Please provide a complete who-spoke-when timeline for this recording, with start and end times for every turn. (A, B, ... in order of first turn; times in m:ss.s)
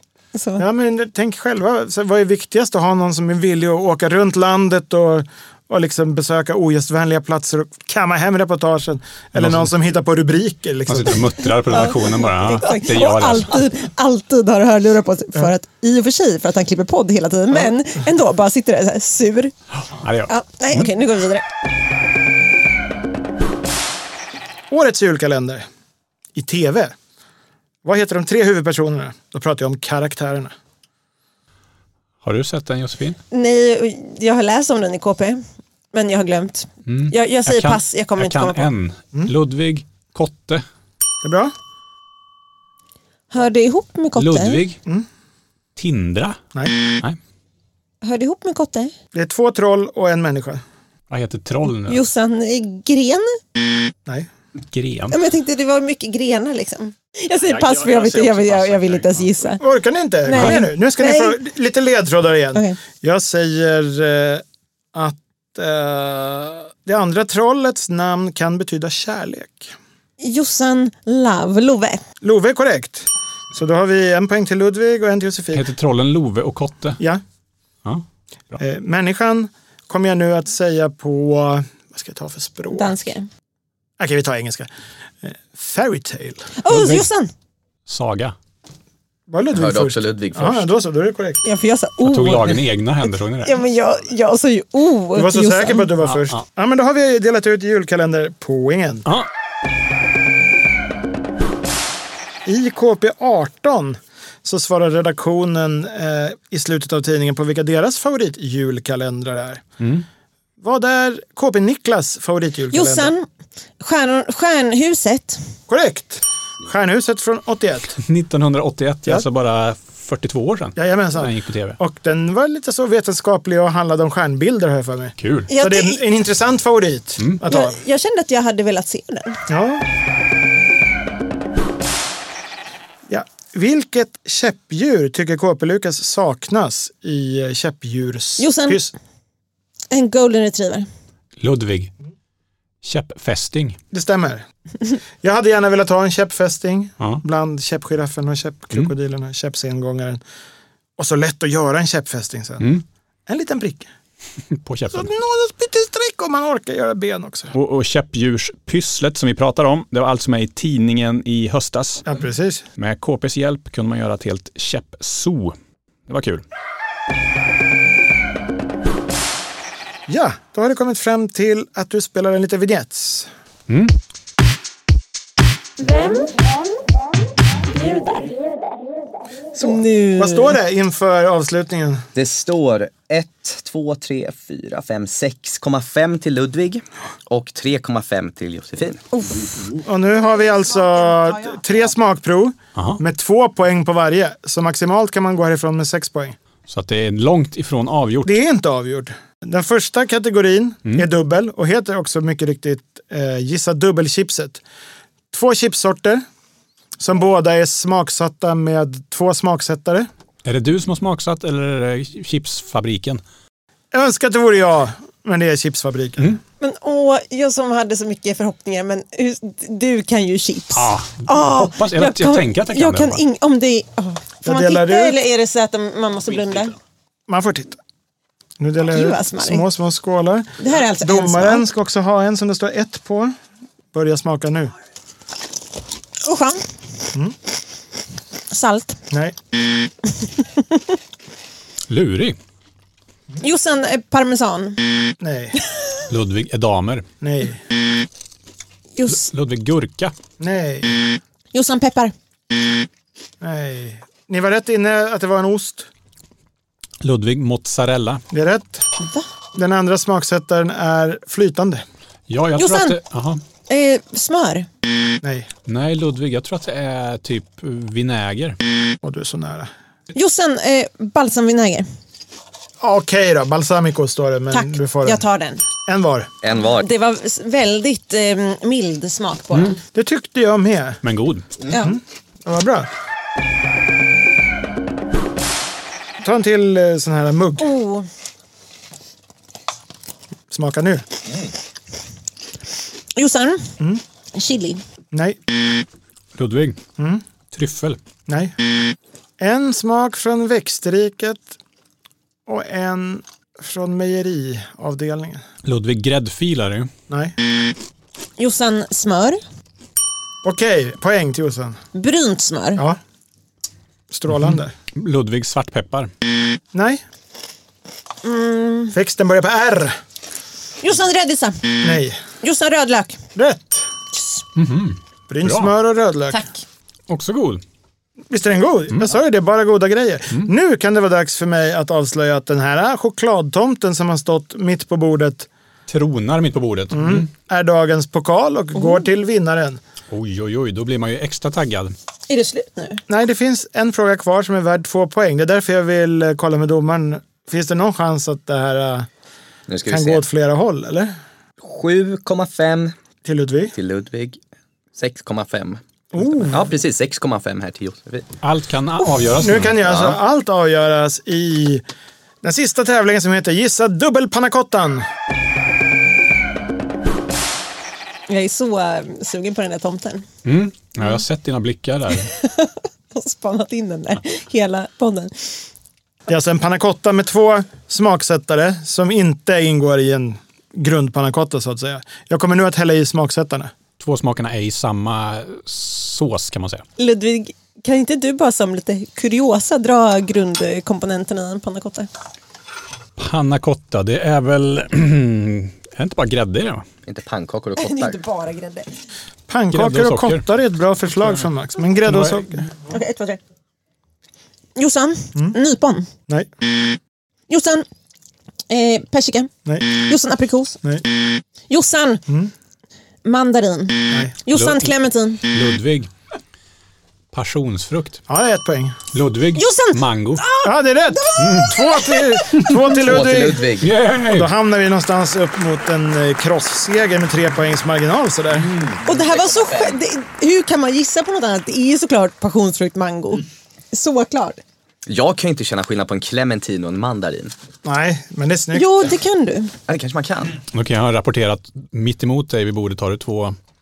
0:00.3-0:00.6 A
0:00.6-0:11.3 B
0:09.4-0:09.7 C
0:10.9-0:13.6 C
0:11.6-0:19.5 A
0:19.9-0:20.9 C
0:20.3-0:21.4 A
0:24.7-0:25.6 B
0:26.4-0:27.0 B
0:27.8-0:30.5 B
0:32.2-0:33.2 C
0:33.3-0:38.7 A
0:36.9-0:40.6 C
0:41.2-0:41.5 B
0:43.3-0:44.6 A
0:44.2-0:44.8 C
0:45.8-0:46.4 C
0:48.0-0:48.9 A
0:49.1-0:50.6 B
0:51.1-0:52.0 C
0:51.9-0:53.4 A
0:54.7-0:55.2 C
0:55.1-0:59.6 A
0:57.5-0:59.2 C
0:59.6-1:09.8 B
1:00.2-1:01.4 A
1:00.4-1:00.6 C
1:10.2-1:12.0 A
1:12.2-1:15.6 B
1:15.5-1:17.0 C
1:18.6-1:23.0 B
1:22.7-1:23.3 A
1:24.0-1:24.7 B
1:25.2-1:26.5 B
1:26.6-1:27.3 A
1:26.7-1:27.1 C
1:27.9-1:28.4 C
1:29.3-1:31.4 B
1:29.5-1:30.6 D
1:31.4-1:32.7 A
1:32.0-1:33.6 C
1:33.4-1:35.9 A
1:35.2-1:39.1 B
1:36.1-1:36.4 C
1:42.5-1:49.6 B
1:49.8-1:50.0 C
1:50.6-1:53.1 B
1:52.7-1:53.3 A
1:53.8-1:55.4 A
1:55.7-1:58.0 B
1:58.0-2:01.8 C
2:00.8-2:07.8 B
2:05.2-2:05.5 C
2:05.5-2:06.0 A
2:07.5-2:09.4 A
2:09.5-2:09.8 B
2:13.1-2:18.9 B
2:18.4-2:18.8 A
2:19.9-2:20.9 A
2:21.4-2:21.9 C
2:22.8-2:23.8 C
2:23.9-2:24.4 B
2:25.2-2:30.2 B
2:31.0-2:32.7 B
2:33.3-2:33.9 B
2:34.5-2:35.1 C
2:34.9-2:37.5 B
2:37.5-2:42.0 C
2:42.0-2:42.7 B
2:42.8-2:45.6 C
2:46.1-2:46.4 C
2:50.1-2:53.3 B
2:55.8-2:56.4 A
2:57.6-2:58.4 A
2:59.6-3:02.1 B
2:59.6-3:00.6 A
3:02.2-3:09.0 D
3:09.1-3:09.6 A
3:09.8-3:16.4 B
3:12.8-3:13.0 C
3:16.7-3:18.4 C
3:18.2-3:24.6 B
3:25.3-3:26.2 B
3:27.0-3:30.1 B
3:30.4-3:33.2 C
3:33.9-3:36.4 B
3:36.6-3:46.8 A
3:40.7-3:43.2 C
3:44.4-3:45.2 B
3:47.3-3:47.8 B
3:48.6-3:53.3 B
3:48.9-3:49.6 A
3:50.6-3:51.6 A
3:53.9-3:54.7 B
3:56.2-3:56.6 A
3:58.5-3:59.0 A
3:59.1-3:59.4 B
4:01.9-4:02.4 C
4:03.4-4:04.8 A
4:05.2-4:05.6 B
4:06.1-4:07.1 C
4:07.2-4:07.6 B
4:09.0-4:09.3 A
4:09.1-4:10.1 C
4:10.4-4:11.0 B
4:11.5-4:12.1 A
4:13.4-4:15.9 B
4:17.0-4:18.2 C
4:18.3-4:18.9 B
4:19.6-4:21.8 B
4:22.3-4:23.4 C
4:22.6-4:23.0 A
4:23.7-4:24.7 A
4:25.2-4:25.5 B
4:25.7-4:28.6 C
4:29.0-4:29.7 B
4:30.1-4:31.9 A
4:32.8-4:35.2 B
4:34.5-4:35.6 A
4:35.8-4:36.3 B
4:36.4-4:36.9 D
4:36.6-4:39.8 A
4:39.9-4:41.0 B
4:41.0-4:41.5 C
4:41.7-4:42.0 A
4:41.7-4:42.9 B
4:46.2-4:47.7 B
4:47.6-4:48.1 A
4:50.5-4:51.0 B
4:53.2-4:53.7 A
4:54.3-4:54.8 A
4:55.1-4:55.4 B
4:56.4-4:56.8 C
4:57.0-4:57.2 B
4:57.5-4:58.0 C
4:58.3-4:58.6 B
4:59.4-5:01.6 B
5:02.5-5:05.4 B
5:05.6-5:06.9 C
5:07.1-5:07.4 B
5:08.4-5:09.4 A
5:10.4-5:11.8 B
5:11.9-5:12.8 A
5:14.1-5:14.7 B
5:14.3-5:16.1 C
5:16.7-5:17.0 B
5:18.2-5:19.0 A
5:18.9-5:20.0 B
5:20.8-5:21.6 A
5:21.8-5:22.2 B
5:22.4-5:23.2 A
5:23.4-5:23.9 B
5:24.6-5:25.7 C
5:25.3-5:26.4 B
5:26.3-5:26.6 A
5:27.1-5:27.6 C
5:28.3-5:35.5 B
5:35.9-5:37.3 C
5:36.9-5:39.8 B
5:40.1-5:41.9 C
5:42.3-5:43.0 A
5:43.1-5:49.1 B
5:49.7-5:50.2 D
5:49.9-5:51.1 B
5:51.6-5:53.0 D
5:53.2-5:53.7 B
5:53.7-5:54.4 D
5:55.0-5:55.8 D
5:56.1-5:56.7 B
5:56.4-5:58.3 D
5:58.4-5:59.8 C
5:59.4-6:01.8 B
5:59.8-6:00.2 D
6:02.4-6:05.0 B
6:08.3-6:10.2 A
6:10.4-6:12.3 C
6:12.2-6:15.5 A
6:16.3-6:23.7 B
6:24.0-6:26.8 C
6:27.0-6:32.1 A
6:33.2-6:36.9 C
6:37.0-6:38.2 D
6:37.8-6:38.9 A
6:39.5-6:42.7 B
6:39.7-6:40.4 C
6:42.0-6:42.5 C
6:42.9-6:43.4 A
6:44.8-6:46.1 A
6:47.5-6:47.8 A
6:48.7-6:50.8 A
6:51.7-6:52.2 A
6:53.2-6:55.4 A
6:54.5-6:56.1 C
6:57.3-6:58.2 C
6:58.3-6:59.0 B
6:59.1-7:00.4 C
6:59.6-7:03.0 A
7:00.6-7:03.7 B
7:01.4-7:01.7 C
7:03.0-7:03.9 D
7:03.8-7:04.5 C
7:04.3-7:08.7 B
7:09.0-7:14.6 A
7:09.1-7:09.9 D
7:15.1-7:17.5 D
7:17.8-7:18.9 B
7:18.7-7:19.7 A
7:19.9-7:20.6 D
7:20.7-7:23.6 C